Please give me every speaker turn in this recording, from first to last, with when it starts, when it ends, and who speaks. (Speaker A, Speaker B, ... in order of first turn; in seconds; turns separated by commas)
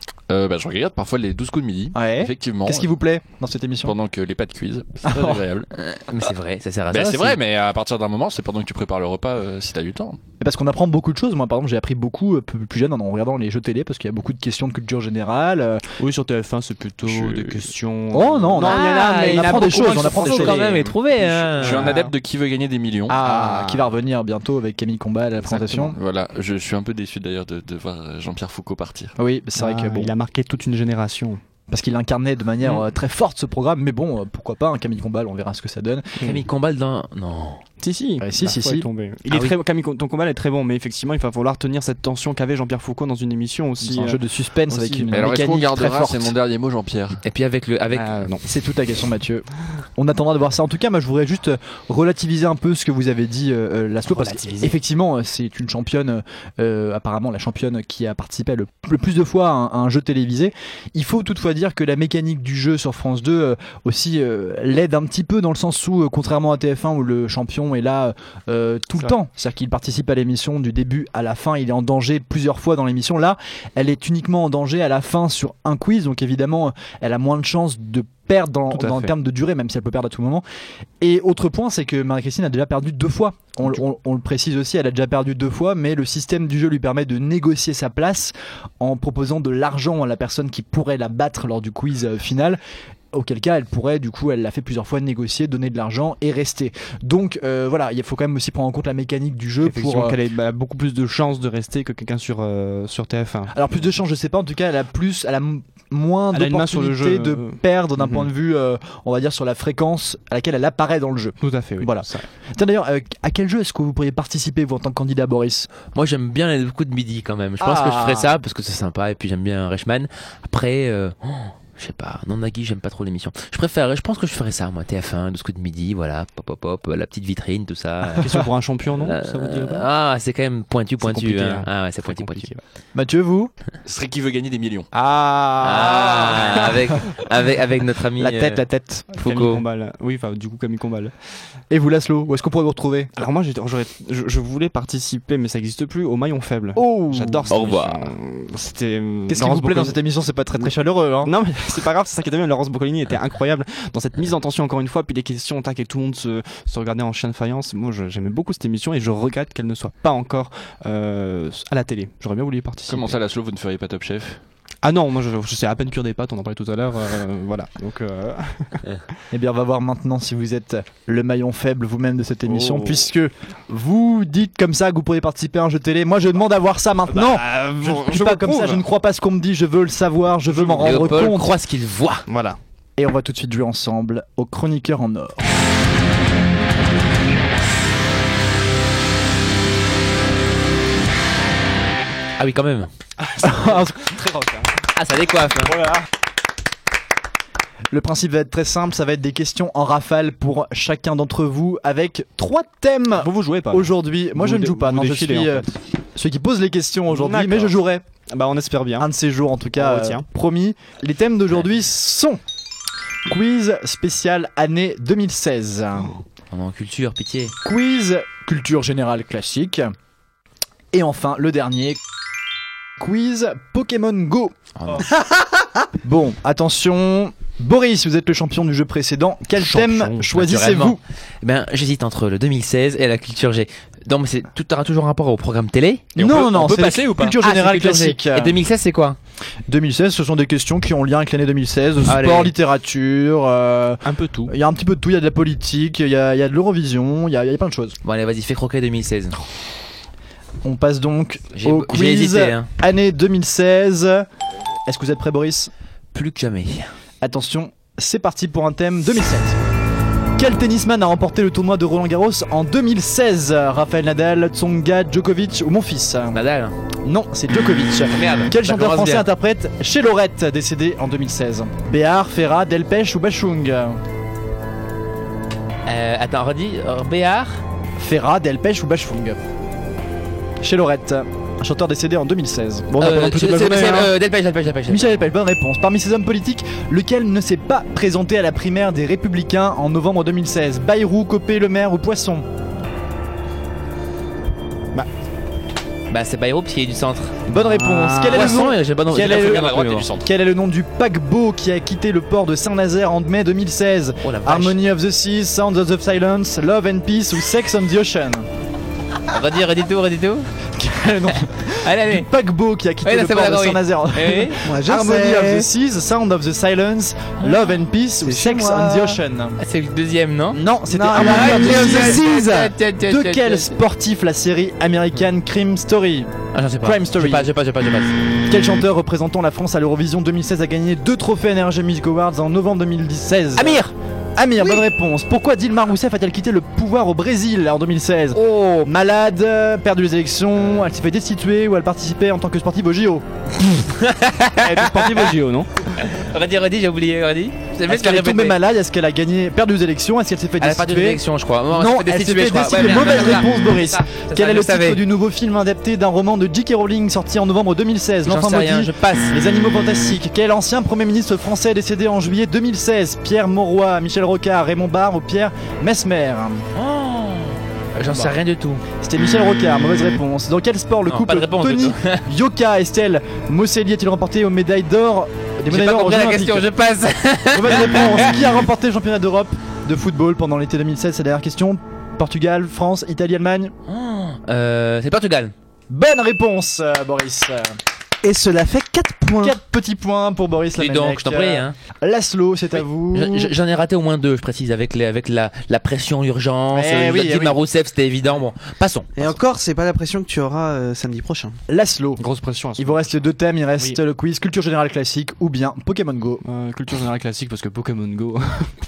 Speaker A: 0.3-2.9, Speaker B: 1.9-4.0, Speaker A: 3.8-5.7, Speaker B: 5.0-5.4, Speaker C: 5.7-7.4, Speaker A: 6.9-10.2, Speaker B: 10.4-15.8, Speaker D: 16.0-22.1, Speaker A: 17.0-17.7, Speaker B: 18.1-20.8, Speaker C: 18.6-21.9, Speaker A: 21.6-23.2, Speaker B: 23.1-25.9, Speaker D: 23.2-23.9, Speaker D: 25.5-25.9, Speaker A: 25.9-29.1, Speaker B: 29.2-30.1, Speaker D: 29.6-31.4, Speaker B: 31.7-36.2, Speaker C: 36.2-37.6, Speaker D: 37.8-45.1, Speaker B: 38.2-38.9, Speaker C: 39.3-39.5, Speaker B: 43.8-46.3, Speaker A: 45.1-47.2, Speaker C: 47.2-48.3, Speaker D: 47.9-48.5, Speaker B: 48.4-80.4, Speaker D: 54.1-54.7, Speaker D: 78.7-79.1, Speaker B: 81.0-92.6, Speaker B: 93.1-100.2, Speaker D: 99.6-103.6, Speaker B: 103.5-115.7, Speaker D: 106.3-108.3, Speaker D: 111.4-112.3, Speaker C: 115.9-128.4, Speaker B: 117.6-118.3, Speaker D: 128.2-129.9, Speaker C: 129.0-132.5, Speaker D: 131.0-132.6, Speaker B: 132.9-133.5, Speaker A: 133.8-134.9, Speaker B: 134.9-136.8, Speaker C: 135.6-138.6, Speaker B: 138.2-139.4, Speaker C: 139.1-139.6, Speaker D: 139.2-141.1, Speaker B: 141.7-143.1, Speaker D: 143.2-150.0, Speaker B: 146.8-147.5, Speaker C: 147.5-148.1, Speaker B: 149.3-151.3, Speaker D: 151.2-163.2, Speaker A: 162.9-164.4, Speaker D: 164.8-168.8, Speaker B: 169.3-181.5, Speaker D: 172.4-173.1, Speaker D: 177.1-178.8, Speaker D: 180.5-181.2, Speaker C: 180.8-182.2, Speaker D: 182.3-182.6, Speaker B: 183.0-185.5, Speaker C: 192.4-192.9, Speaker D: 193.2-194.7, Speaker B: 193.4-194.1, Speaker C: 194.9-195.8, Speaker D: 195.6-196.1, Speaker B: 197.9-208.0, Speaker D: 203.2-205.7, Speaker D: 207.1-209.1, Speaker B: 209.0-212.4, Speaker D: 209.8-210.2, Speaker B: 213.3-216.2, Speaker C: 216.5-217.5, Speaker B: 217.6-219.9, Speaker B: 220.9-222.0, Speaker B: 223.0-224.5, Speaker C: 224.8-225.1, Speaker E: 225.1-225.6, Speaker B: 226.0-231.0, Speaker D: 229.6-230.3, Speaker C: 230.3-239.2, Speaker B: 236.2-238.6, Speaker A: 236.2-236.9, Speaker B: 239.7-248.0, Speaker C: 242.1-242.5, Speaker D: 244.0-244.5, Speaker C: 248.0-249.4, Speaker B: 250.6-254.2, Speaker C: 251.5-252.7, Speaker B: 254.9-255.7, Speaker C: 256.1-256.9, Speaker B: 257.2-259.6, Speaker B: 260.4-266.4, Speaker C: 266.3-266.7, Speaker B: 267.0-274.0, Speaker C: 268.1-269.3, Speaker C: 275.9-277.6, Speaker B: 278.0-279.4, Speaker B: 280.6-282.9, Speaker D: 282.9-284.1, Speaker C: 283.0-285.2, Speaker B: 284.9-292.4, Speaker C: 296.1-297.5, Speaker B: 297.5-308.4, Speaker D: 297.7-298.4, Speaker C: 298.1-300.1, Speaker A: 298.3-298.6, Speaker A: 299.1-300.3, Speaker C: 304.2-304.8, Speaker C: 309.3-310.5, Speaker B: 310.8-319.6, Speaker C: 311.2-312.3, Speaker C: 313.0-314.6, Speaker E: 314.6-315.7, Speaker E: 318.2-319.2, Speaker C: 319.6-323.8, Speaker B: 320.5-326.3, Speaker E: 320.9-322.7, Speaker C: 326.5-328.2, Speaker B: 326.8-327.5, Speaker B: 328.4-333.8, Speaker C: 333.6-333.9, Speaker B: 334.4-343.2, Speaker C: 338.3-338.9, Speaker C: 343.7-345.3, Speaker D: 344.6-346.0, Speaker C: 346.0-348.6, Speaker B: 347.9-366.7, Speaker C: 350.6-355.0, Speaker C: 358.2-359.3, Speaker C: 366.8-368.8, Speaker B: 368.1-368.3, Speaker B: 369.0-376.7, Speaker C: 371.1-372.2, Speaker C: 375.7-378.4, Speaker B: 377.5-383.7, Speaker C: 383.9-385.5, Speaker B: 385.9-387.7, Speaker E: 388.2-389.6, Speaker B: 389.4-393.5, Speaker C: 390.8-391.8, Speaker C: 393.1-399.3, Speaker B: 396.7-397.6, Speaker E: 399.2-401.6, Speaker B: 401.7-402.2, Speaker D: 402.2-403.2, Speaker B: 402.8-406.4, Speaker D: 406.4-408.7